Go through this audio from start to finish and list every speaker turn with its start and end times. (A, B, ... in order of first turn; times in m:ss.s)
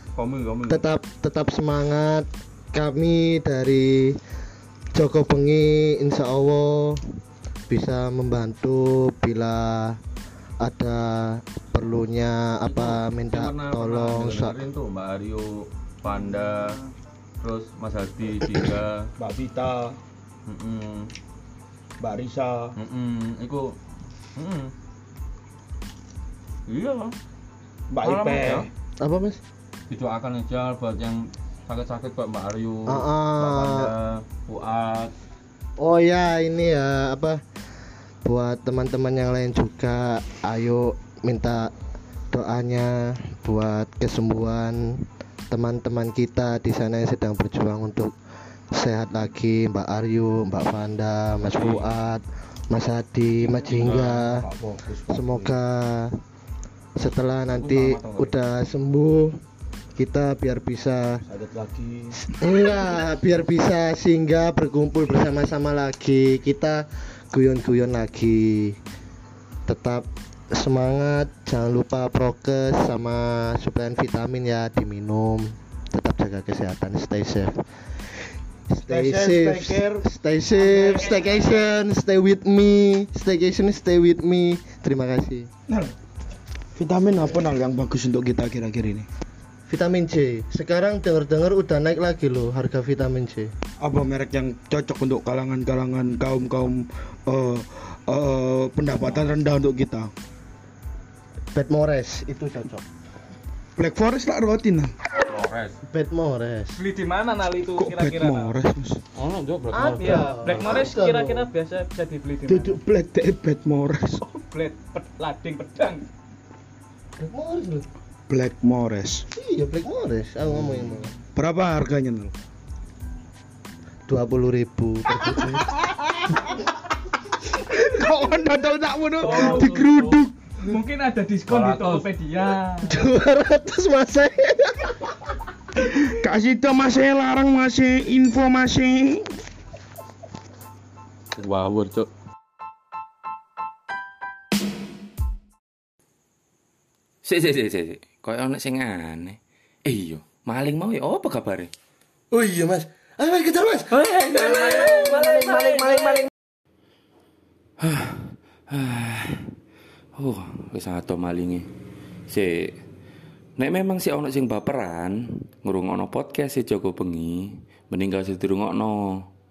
0:00.2-0:00.9 A
0:00.7-0:04.2 B
0:05.0-0:07.0 B
0:07.7-0:10.0 B
0:10.6-0:14.6 B
0:12.7-0:16.8 A
0:16.1-0:16.9 C
0:17.4-0:19.1 A
0:19.2-0:20.0 D
0:20.5-0:21.1 A
0:22.0-0:22.7 D
0:22.8-0:23.8 A
0:24.4-0:24.7 A
0:26.7-0:27.2 A
0:27.9-0:28.7 D
0:28.0-0:28.7 A
0:29.0-0:29.4 B
0:29.9-0:35.1 A
0:32.9-0:33.9 B
0:35.8-0:37.4 B
0:38.2-0:41.7 B
0:42.3-0:48.1 B
0:48.7-0:54.4 B
0:51.5-0:51.8 A
0:53.4-0:55.6 D
0:53.8-0:54.2 A
0:55.1-0:56.2 B
0:57.0-0:59.4 B
0:57.6-0:58.3 A
0:57.6-0:58.2 D
1:00.0-1:01.2 B
1:01.3-1:02.2 D
1:02.4-1:08.8 B
1:09.7-1:17.6 B
1:18.7-1:25.5 B
1:18.9-1:20.0 D
1:20.6-1:21.4 D
1:20.8-1:21.6 C
1:25.7-1:25.9 D
1:26.8-1:29.1 D
1:29.7-1:33.5 B
1:33.8-1:40.1 D
1:41.6-1:42.8 B
1:43.8-1:44.9 D
1:45.3-1:45.8 A
1:45.9-1:46.8 B
1:46.8-1:48.5 C
1:47.8-1:49.0 D
1:49.2-1:50.8 A
1:49.7-1:51.5 B
1:50.0-1:52.8 C
1:52.5-1:54.2 D
1:54.3-1:56.1 C
1:57.2-1:57.9 B
1:58.3-1:59.3 D
1:59.4-2:01.1 B
2:00.5-2:02.3 D
2:04.1-2:05.8 B
2:07.6-2:10.3 D
2:09.2-2:13.0 C
2:11.5-2:12.1 A
2:12.8-2:15.1 B
2:15.8-2:19.3 D
2:21.4-2:22.1 A
2:27.2-2:31.7 A
2:32.3-2:36.3 B
2:34.0-2:35.1 A
2:34.2-2:36.3 C
2:37.8-2:39.5 A
2:40.2-2:41.7 A
2:42.3-2:42.8 A
2:43.6-2:49.3 A